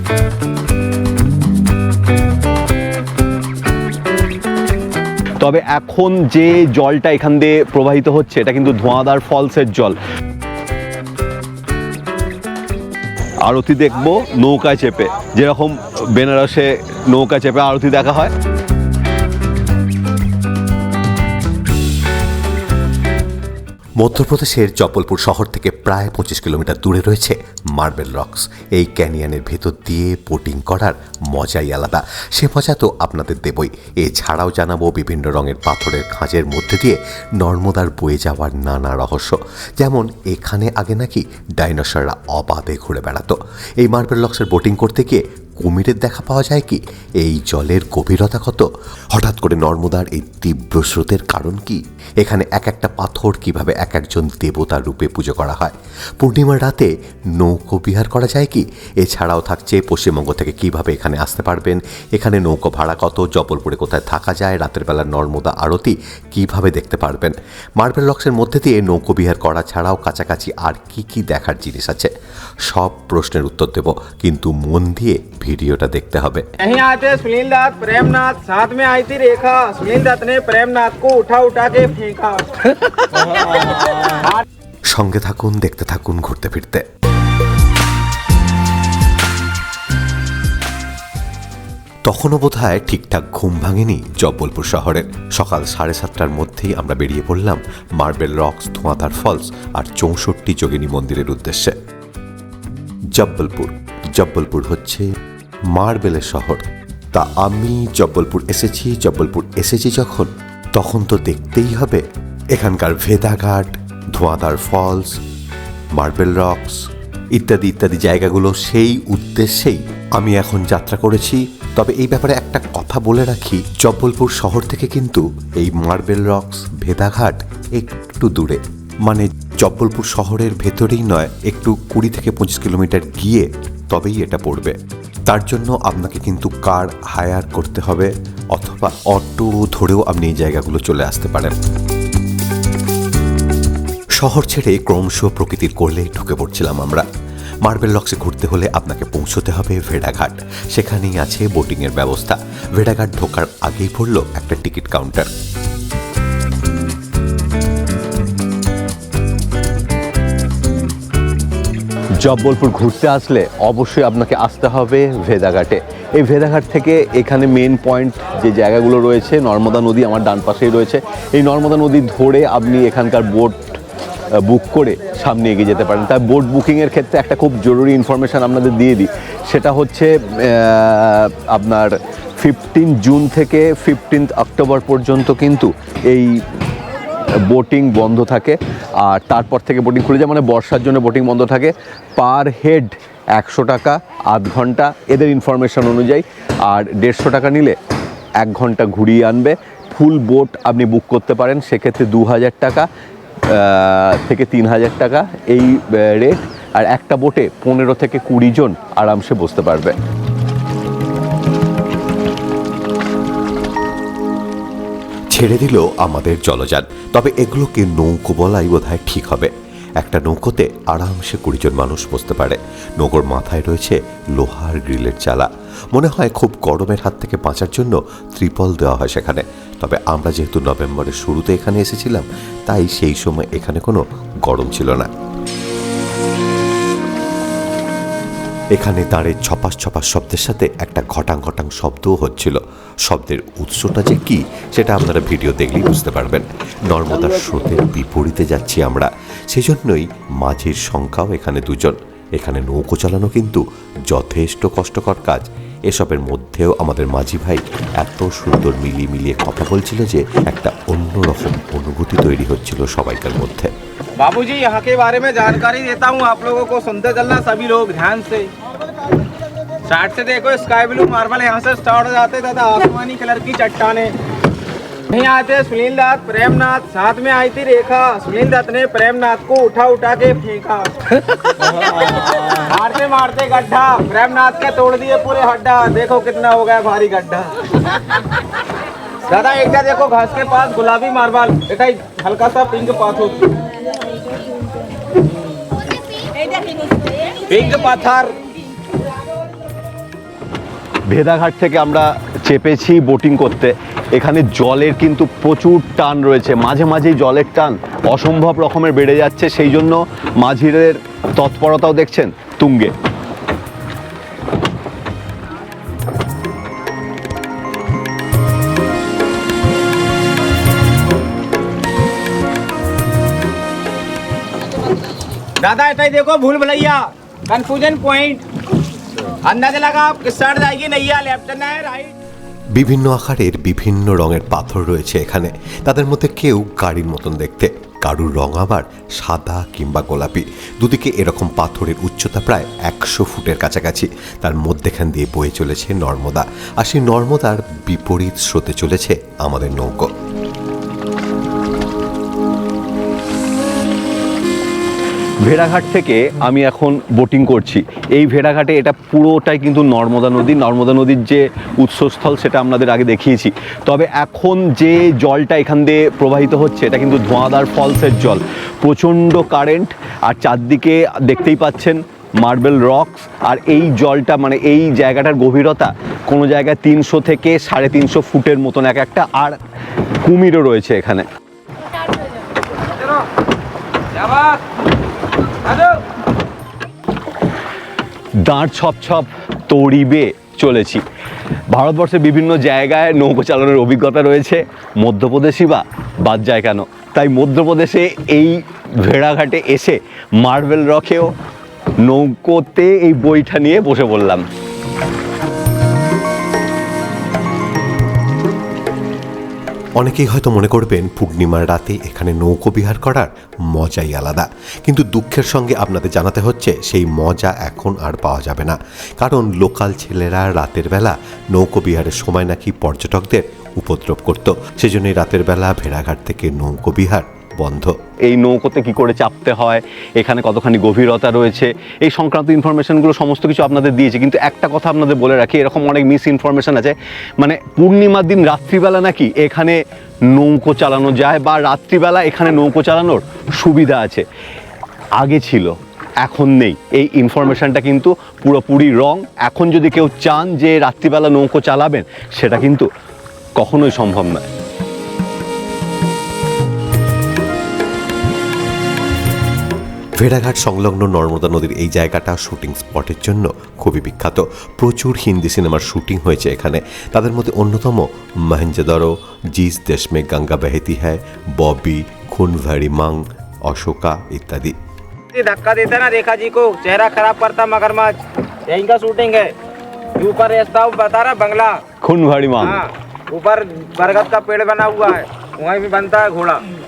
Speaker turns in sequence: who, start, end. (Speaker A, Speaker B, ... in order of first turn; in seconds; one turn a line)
Speaker A: 5.4-10.0
Speaker A: 13.4-18.3
Speaker B: 24.0-72.1
Speaker B: 72.7-76.5
Speaker C: 76.6-84.4
Speaker B: 84.9-86.8
Speaker B: 92.1-101.8
Speaker B: 103.1-105.1
Speaker B: 105.7-112.0
Speaker B: 112.5-115.1
Speaker B: 116.0-116.8
Speaker B: 117.3-134.8
Speaker B: 135.3-141.6
Speaker B: 144.2-147.1
Speaker B: 147.6-155.3
Speaker A: 162.2-173.8
Speaker A: 174.4-186.4
Speaker A: 187.4-197.8
Speaker A: 198.4-202.9
Speaker A: 203.4-210.0
Speaker B: 215.3-235.1
Speaker B: 238.8-263.7
Speaker C: 264.2-268.6
Speaker C: 269.9-274.1
Speaker C: 275.1-287.6
Speaker C: 289.3-293.6
Speaker C: 297.3-298.4
Speaker A: 301.1-312.9
Speaker C: 325.6-328.4
Speaker C: 329.4-332.1
Speaker B: 332.8-350.1
Speaker A: 355.4-379.6
Speaker A: 380.2-381.3
Speaker C: 384.2-384.6
Speaker C: 385.7-385.9
Speaker A: 388.4-391.0
Speaker A: 391.7-401.3
Speaker A: 402.0-404.4
Speaker B: 410.0-427.9
Speaker A: 428.2-439.8
Speaker A: 440.3-444.2
Speaker A: 445.2-452.9
Speaker A: 453.6-454.5
Speaker B: 460.2-474.8
Speaker C: 475.3-478.2
Speaker C: 478.7-479.5
Speaker C: 480.2-481.8
Speaker A: 482.0-482.8
Speaker C: 482.6-486.6